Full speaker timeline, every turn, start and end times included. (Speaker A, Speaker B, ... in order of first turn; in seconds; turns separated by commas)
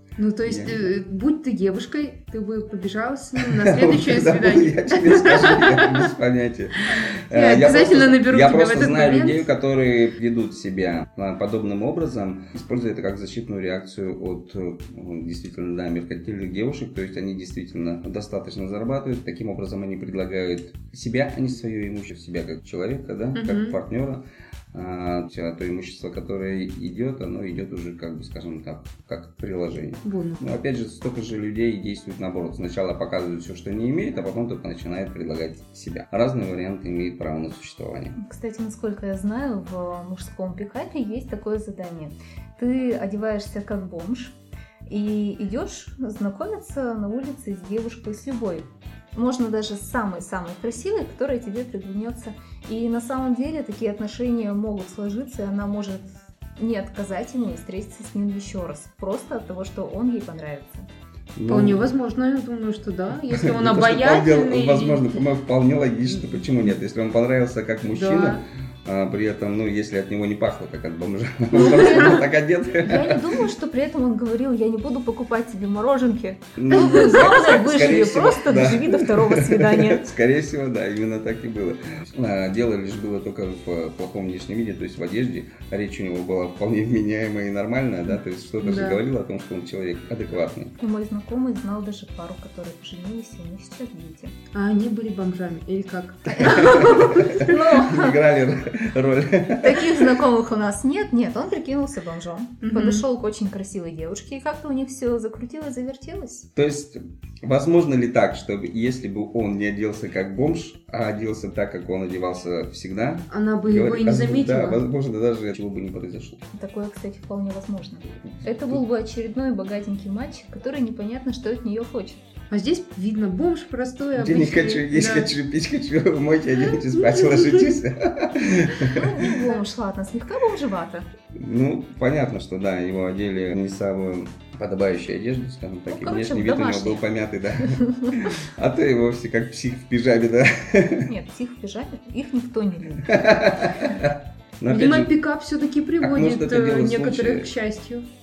Speaker A: 0.2-6.1, Speaker B: 0.5-0.9, Speaker B: 3.4-38.2, Speaker A: 7.3-9.5, Speaker A: 23.4-23.8, Speaker A: 30.1-30.4, Speaker C: 38.2-44.4, Speaker C: 44.9-60.9, Speaker B: 61.4-61.9, Speaker A: 61.5-65.1, Speaker B: 63.3-73.4, Speaker A: 67.9-68.4, Speaker C: 71.5-80.1, Speaker B: 76.6-90.8, Speaker A: 88.6-89.0, Speaker C: 90.8-94.4, Speaker A: 94.5-97.5, Speaker C: 96.3-98.2, Speaker B: 96.4-100.1, Speaker C: 99.6-106.5, Speaker A: 102.6-103.0, Speaker B: 106.6-116.4, Speaker A: 113.3-114.8, Speaker C: 116.5-122.2, Speaker A: 122.5-125.3, Speaker B: 124.2-129.4, Speaker C: 128.8-131.1, Speaker B: 131.3-141.1, Speaker C: 135.9-137.0, Speaker C: 137.7-138.2, Speaker C: 141.1-143.3, Speaker B: 143.1-145.1, Speaker A: 144.7-148.1, Speaker B: 146.0-147.5